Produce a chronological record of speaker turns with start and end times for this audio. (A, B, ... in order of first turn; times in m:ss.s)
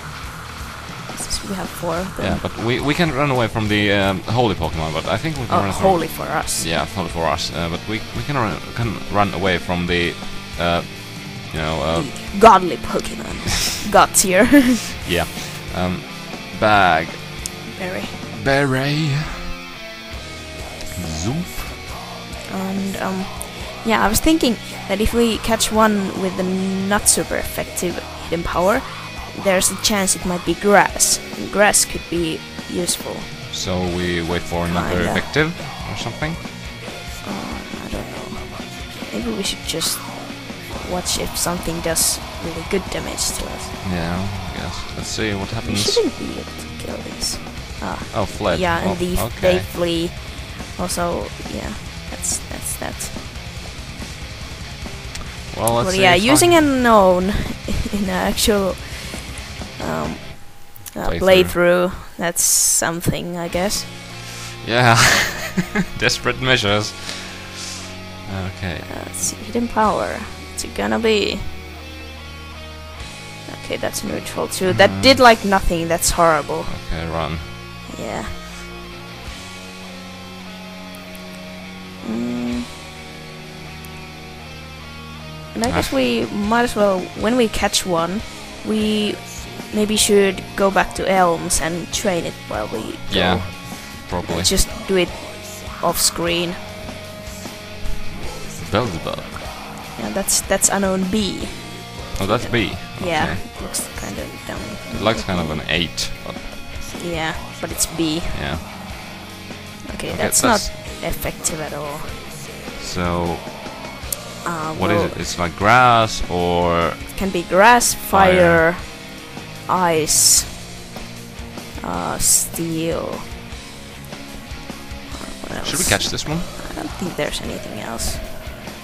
0:01.1-0:02.4 A
0:02.2-0:12.4 B
0:05.5-0:06.7 A
0:11.9-0:14.9 A
0:15.0-0:17.4 B
0:17.7-0:18.2 A
0:18.3-0:19.5 B
0:20.9-0:21.7 B
0:22.5-0:33.3 A
0:33.5-0:36.4 B
0:34.7-0:35.3 A
0:37.2-0:43.8 A
0:43.8-0:46.0 B
0:45.6-0:53.1 A
0:48.1-0:49.7 B
0:55.5-0:56.7 B
0:55.8-1:03.9 A
1:01.0-1:01.6 B
1:04.6-1:07.6 B
1:08.2-1:08.9 B
1:08.8-1:11.6 A
1:13.5-1:16.8 A
1:14.6-1:15.2 B
1:16.6-1:17.5 B
1:17.9-1:18.4 A
1:22.0-1:22.7 A
1:25.5-1:36.6 A
1:33.1-1:34.5 B
1:38.6-1:39.4 B
1:39.9-1:45.6 A
1:42.2-1:43.4 B
1:44.9-1:46.4 B
1:46.9-1:48.4 A
1:48.3-1:48.6 B
1:49.9-1:52.2 A
1:50.1-1:50.7 B
1:52.8-1:53.5 B
1:54.4-1:55.2 A
1:54.7-1:57.1 B
1:57.1-2:00.6 A
1:58.1-1:58.6 B
2:01.8-2:03.2 A
2:05.2-2:08.5 A
2:05.6-2:06.5 B